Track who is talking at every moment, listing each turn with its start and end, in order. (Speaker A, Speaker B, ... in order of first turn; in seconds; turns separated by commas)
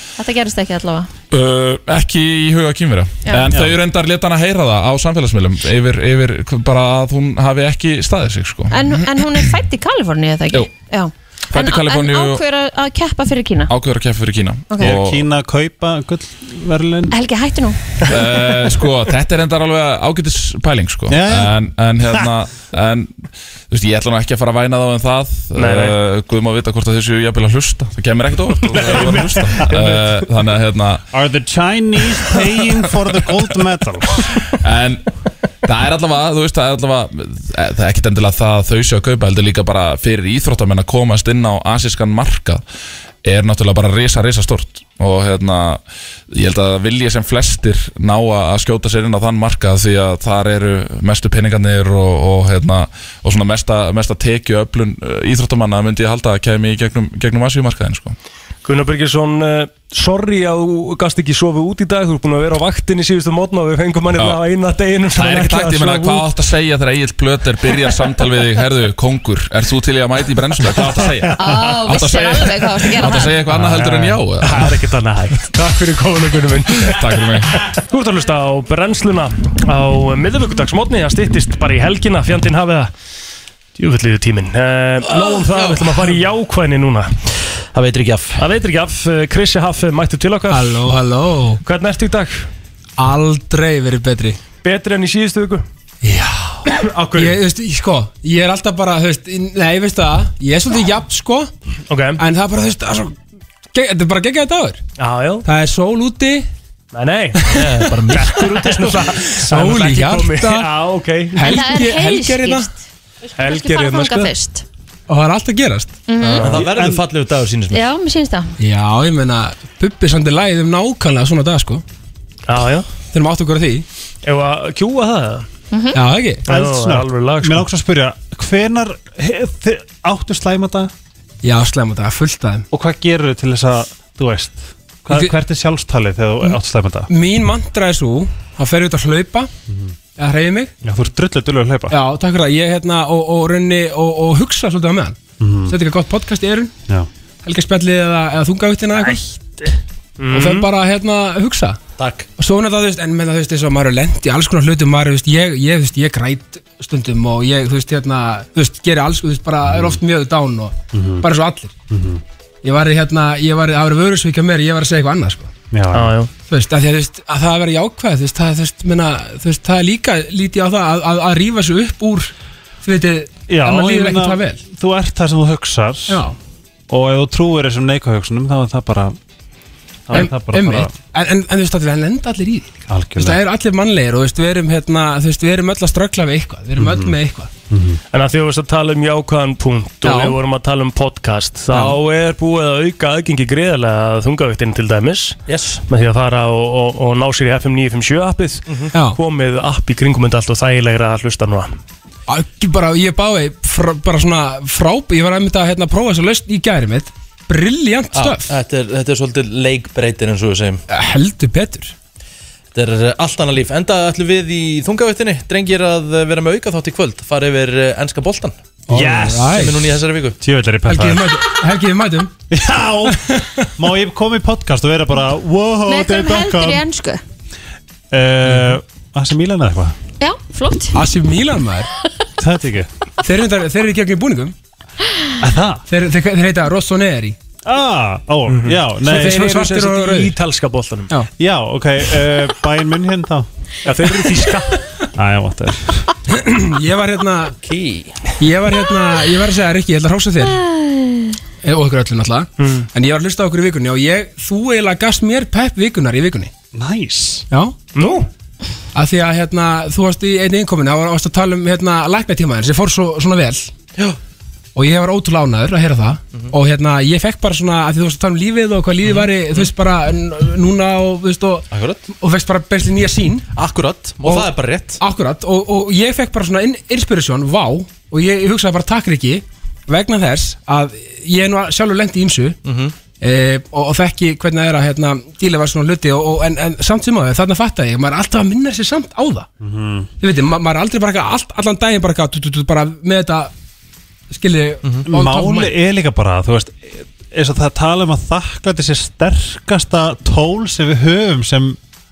Speaker A: 0.2-1.1, Speaker B: 1.3-9.5, Speaker A: 8.7-13.7, Speaker B: 11.5-12.4, Speaker B: 13.7-15.2, Speaker A: 14.7-14.9, Speaker C: 14.8-17.1, Speaker A: 17.1-18.0, Speaker B: 18.1-31.0, Speaker C: 21.1-21.6, Speaker D: 25.6-26.0, Speaker D: 28.7-30.3, Speaker C: 28.9-29.7, Speaker C: 31.1-34.3, Speaker B: 34.6-35.0, Speaker B: 35.6-42.6, Speaker B: 43.2-58.2, Speaker D: 58.6-66.3, Speaker B: 64.2-64.4, Speaker B: 65.1-74.7, Speaker A: 71.4-73.4, Speaker C: 73.5-74.2, Speaker D: 74.4-82.9, Speaker B: 76.8-77.6, Speaker D: 83.8-87.1, Speaker E: 85.1-86.2, Speaker E: 87.7-88.4, Speaker D: 88.4-90.9, Speaker F: 90.5-91.6, Speaker D: 91.6-92.5, Speaker F: 93.0-94.4, Speaker D: 94.6-95.7, Speaker F: 96.0-101.5, Speaker D: 96.7-97.4, Speaker D: 101.9-102.2, Speaker F: 102.2-103.2, Speaker F: 103.7-104.8, Speaker D: 105.0-105.5, Speaker F: 105.5-106.5, Speaker D: 106.9-111.8, Speaker E: 107.5-109.2, Speaker F: 109.1-110.7, Speaker F: 111.3-112.7, Speaker A: 111.4-112.8, Speaker A: 113.3-114.7, Speaker D: 113.4-114.3, Speaker F: 115.1-116.0, Speaker A: 116.1-116.5, Speaker D: 116.2-116.8, Speaker E: 116.4-117.8, Speaker C: 116.5-117.0, Speaker A: 117.7-118.6, Speaker F: 118.6-121.8, Speaker D: 122.5-122.9, Speaker F: 123.1-123.8, Speaker D: 124.2-125.5, Speaker A: 125.7-126.0, Speaker F: 125.9-126.5, Speaker D: 126.5-127.7, Speaker C: 126.5-130.9, Speaker F: 131.4-132.7, Speaker C: 132.7-137.1, Speaker F: 137.1-139.5, Speaker C: 139.7-139.9, Speaker F: 140.2-140.7, Speaker C: 140.8-142.0, Speaker F: 141.9-146.8, Speaker C: 145.4-145.8, Speaker F: 147.4-149.6, Speaker D: 150.2-150.7, Speaker F: 150.3-151.8, Speaker E: 152.0-152.3, Speaker F: 152.4-161.8, Speaker C: 159.6-160.0, Speaker C: 160.9-161.3, Speaker C: 161.9-162.2, Speaker F: 162.6-165.5, Speaker C: 165.7-166.2, Speaker D: 165.9-166.3, Speaker F: 166.5-174.6, Speaker C: 173.5-176.2, Speaker F: 176.1-176.4, Speaker C: 176.9-179.2, Speaker C: 180.1-180.9, Speaker F: 180.1-187.5, Speaker C: 182.9-183.4, Speaker C: 186.8-187.2, Speaker C: 187.7-188.0, Speaker D: 188.1-201.7, Speaker F: 190.0-190.4, Speaker E: 195.5-195.8, Speaker F: 202.3-208.5, Speaker E: 208.1-210.8, Speaker F: 210.9-211.9, Speaker E: 212.7-218.6, Speaker F: 218.9-219.8, Speaker C: 218.9-219.7, Speaker E: 219.5-220.4, Speaker C: 220.4-221.4, Speaker F: 220.8-222.3, Speaker C: 222.5-226.8, Speaker F: 223.2-223.6, Speaker A: 225.9-227.2, Speaker C: 228.1-230.0, Speaker A: 230.2-231.0, Speaker F: 230.9-231.9, Speaker C: 232.4-232.9, Speaker F: 233.2-234.6, Speaker C: 235.4-235.9, Speaker F: 235.9-237.4, Speaker C: 237.6-239.9, Speaker D: 238.5-241.2, Speaker F: 239.1-240.4, Speaker C: 241.4-243.9, Speaker D: 243.8-244.8, Speaker C: 245.2-246.1, Speaker F: 246.3-247.6, Speaker E: 247.6-248.3, Speaker F: 248.4-250.6, Speaker A: 250.4-251.3, Speaker F: 251.6-256.5, Speaker D: 252.6-252.9, Speaker C: 256.7-257.5, Speaker F: 257.5-257.8, Speaker D: 257.9-258.3, Speaker F: 258.9-263.7, Speaker F: 264.8-273.5, Speaker E: 269.0-269.7, Speaker E: 271.7-272.0, Speaker E: 273.6-275.0, Speaker F: 274.2-274.5, Speaker F: 275.0-282.6, Speaker E: 282.6-282.9, Speaker F: 283.2-289.5, Speaker C: 289.6-290.1, Speaker F: 290.2-293.5, Speaker F: 294.3-295.8, Speaker C: 295.1-301.8